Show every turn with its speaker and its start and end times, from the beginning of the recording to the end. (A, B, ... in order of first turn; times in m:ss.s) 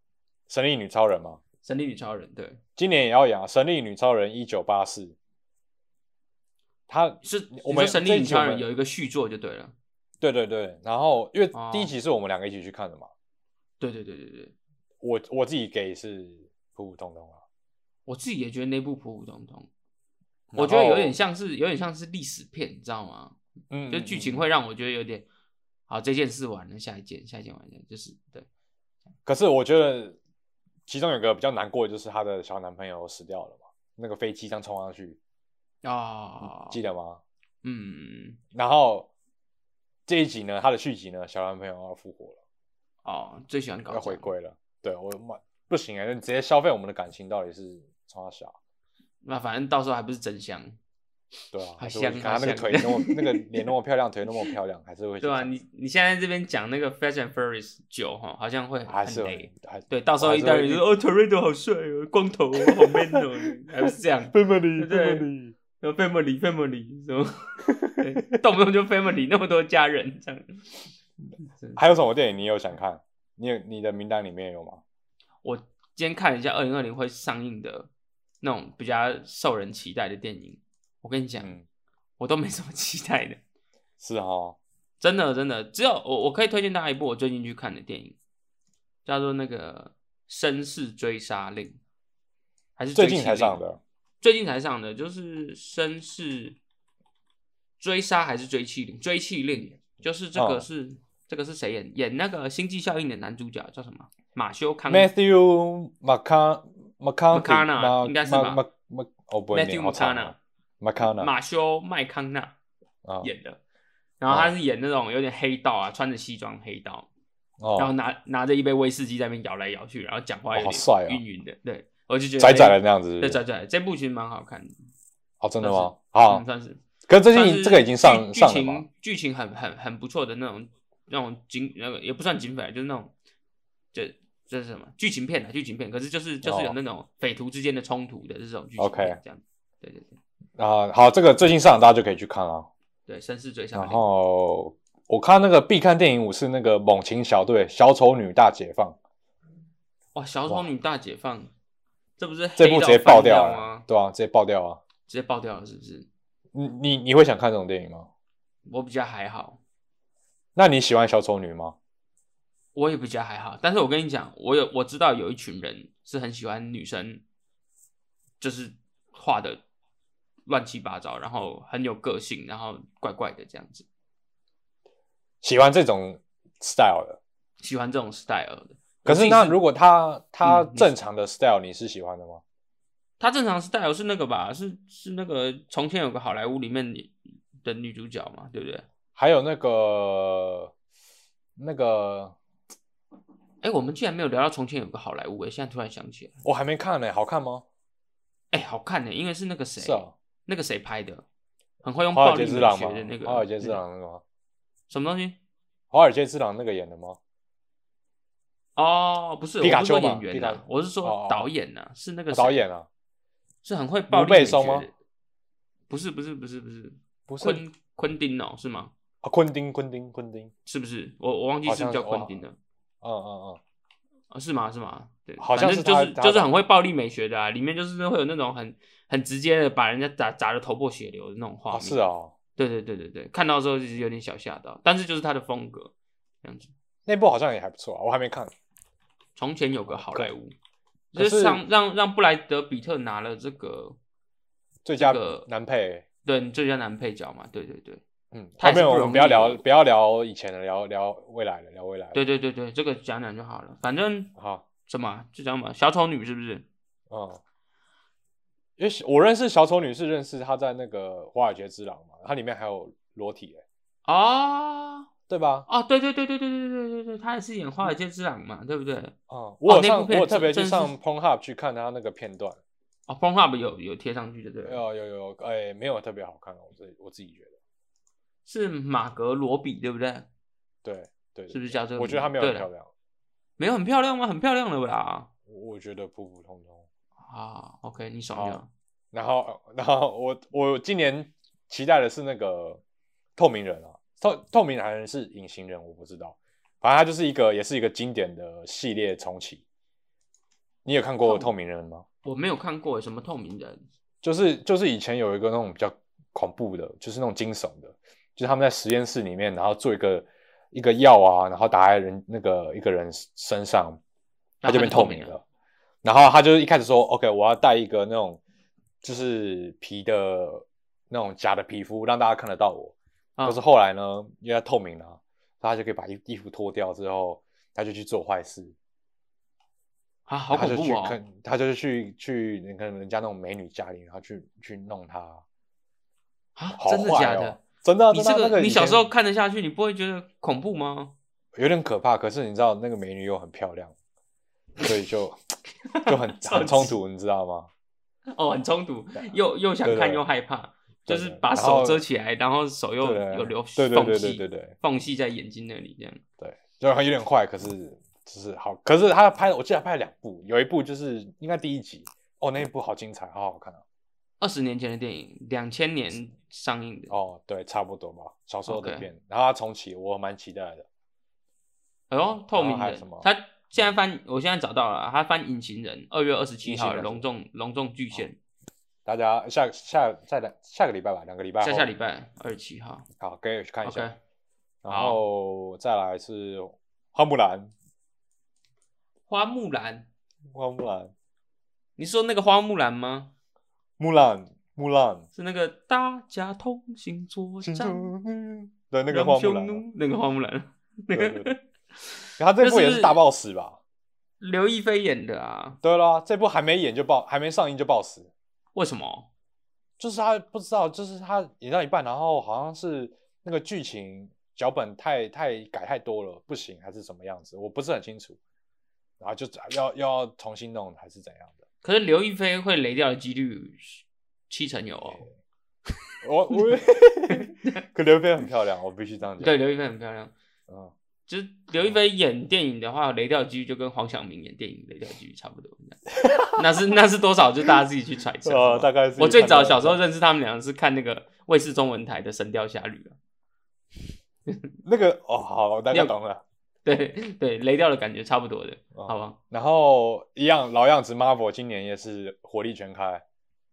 0:00.5-0:01.4 A
0:01.6-0:02.6 B
0:02.8-0:05.2 A
0:06.9-0:08.6 A
0:07.2-0:09.7 B
0:10.2-0:13.1 A
0:11.5-0:11.9 B
0:13.8-0:14.5 B
0:15.0-0:17.4 A
0:18.0-0:19.7 B
0:20.5-0:21.2 A
0:20.6-0:23.4 B
0:23.7-0:24.4 A
0:23.9-0:25.3 B
0:25.9-0:28.4 B
0:29.2-0:30.2 A
0:30.9-0:35.2 A
0:35.8-0:36.8 B
0:36.4-0:37.2 A
0:37.6-0:38.4 B
0:38.5-0:39.1 A
0:40.1-0:42.4 A
0:43.0-0:44.3 B
0:43.9-0:48.6 A
0:49.2-0:50.8 B
0:51.5-0:55.6 A
0:51.8-0:53.7 B
0:55.2-1:05.2 B
0:58.9-1:00.8 A
1:02.6-1:03.2 A
1:04.3-1:05.5 A
1:05.8-1:10.6 B
1:07.7-1:08.0 A
1:11.7-1:14.8 A
1:15.4-1:17.9 B
1:18.4-1:21.5 B
1:22.2-1:23.4 B
1:24.0-1:24.6 A
1:25.0-1:28.2 B
1:29.0-1:31.8 B
1:32.8-1:33.6 B
1:32.9-1:33.8 A
1:34.2-1:36.6 B
1:37.8-1:45.1 B
1:40.3-1:40.6 A
1:44.9-1:51.3 A
1:47.3-1:48.6 B
1:49.5-1:50.4 B
1:51.0-1:52.5 B
1:53.0-1:53.3 A
1:53.2-1:53.6 B
1:54.2-1:57.1 B
1:57.6-1:57.9 A
1:57.8-2:04.8 B
2:00.5-2:01.2 A
2:02.4-2:03.4 A
2:05.4-2:06.4 A
2:05.6-2:06.8 B
2:07.0-2:08.8 A
2:07.3-2:13.1 B
2:13.9-2:20.2 B
2:16.4-2:16.7 A
2:18.8-2:19.2 A
2:20.6-2:22.7 A
2:23.1-2:24.0 B
2:23.7-2:29.0 A
2:30.1-2:31.5 B
2:32.2-2:33.8 B
2:32.6-2:34.8 A
2:35.1-2:36.1 B
2:36.5-2:38.1 A
2:38.6-2:39.6 B
2:40.6-2:41.8 A
2:42.7-2:47.2 B
2:48.4-2:49.6 B
2:50.4-2:53.8 B
2:55.4-2:57.2 A
2:57.6-2:59.6 B
2:59.0-3:02.4 A
3:00.4-3:00.9 B
3:03.2-3:08.8 B
3:09.2-3:10.7 A
3:11.6-3:12.4 A
3:13.6-3:16.4 B
3:16.4-3:17.6 A
3:18.5-3:21.2 B
3:19.8-3:20.1 A
3:21.8-3:23.8 B
3:22.1-3:24.2 A
3:24.9-3:25.4 B
3:25.9-3:27.2 A
3:28.8-3:32.6 B
3:29.6-3:31.5 A
3:32.3-3:32.9 A
3:33.6-3:34.9 B
3:34.1-3:34.9 A
3:35.9-3:38.9 B
3:37.3-3:37.6 A
3:39.2-3:40.5 A
3:40.6-3:42.6 B
3:41.6-3:42.4 A
3:43.0-3:43.6 A
3:44.3-3:52.0 B
3:45.4-3:46.5 A
3:51.7-3:52.3 A
3:52.6-3:56.7 B
3:57.0-3:58.5 A
3:59.4-4:00.5 B
3:59.9-4:00.3 A
4:01.1-4:04.0 B
4:01.2-4:01.6 A
4:04.8-4:06.0 A
4:05.0-4:05.5 B
4:06.2-4:08.0 B
4:08.3-4:12.2 A
4:08.6-4:09.6 B
4:12.1-4:14.3 B
4:14.4-4:14.6 A
4:14.8-4:16.6 B
4:17.1-4:17.4 A
4:18.8-4:23.6 A
4:24.0-4:25.1 B
4:25.3-4:25.7 A
4:25.7-4:29.1 B
4:29.3-4:32.6 A
4:29.6-4:30.9 B
4:33.1-4:34.8 B
4:34.6-4:37.6 A
4:38.4-4:40.3 B
4:40.8-4:42.9 A
4:41.5-4:42.7 B
4:43.6-4:45.3 B
4:45.5-4:46.9 A
4:47.2-4:48.7 B
4:48.3-4:48.6 A
4:49.1-4:52.8 A
4:53.4-4:59.6 A
5:00.8-5:02.0 A
5:01.2-5:01.5 B
5:02.2-5:03.8 B
5:04.2-5:14.0 A
5:14.6-5:15.3 B
5:14.6-5:15.4 A
5:16.0-5:18.4 A
5:19.0-5:28.7 A
5:30.3-5:31.2 B
5:30.5-5:35.4 A
5:36.6-5:37.6 B
5:36.8-5:39.1 A
5:38.1-5:41.1 B
5:41.5-5:43.9 A
5:44.8-5:45.4 A
5:45.9-5:47.0 B
5:46.1-5:47.7 A
5:48.3-5:56.2 B
5:49.8-5:50.2 A
5:51.1-5:52.0 A
5:53.0-5:54.7 A
5:56.4-6:03.8 A
6:04.4-6:07.1 B
6:07.1-6:10.8 A
6:08.7-6:09.1 B
6:12.1-6:18.4 B
6:12.5-6:13.8 A
6:16.6-6:17.2 A
6:19.0-6:21.9 A
6:21.6-6:23.1 B
6:23.2-6:24.1 A
6:23.8-6:24.2 B
6:24.8-6:27.7 A
6:24.9-6:25.2 B
6:29.3-6:30.1 B
6:30.5-6:31.1 A
6:32.0-6:33.3 B
6:34.0-6:35.3 A
6:35.3-6:38.1 B
6:37.6-6:39.8 A
6:39.1-6:43.2 B
6:41.1-6:41.5 A
6:42.4-6:43.8 A
6:44.4-6:45.8 B
6:45.8-6:48.3 A
6:48.7-6:49.3 B
6:50.0-6:58.4 A
6:59.2-7:01.6 A
7:01.8-7:05.3 B
7:06.2-7:09.5 A
7:07.3-7:07.8 B
7:09.4-7:10.3 B
7:11.3-7:23.2 B
7:16.1-7:16.6 A
7:18.4-7:20.0 A
7:24.8-7:26.4 A
7:26.8-7:29.4 B
7:28.9-7:33.2 A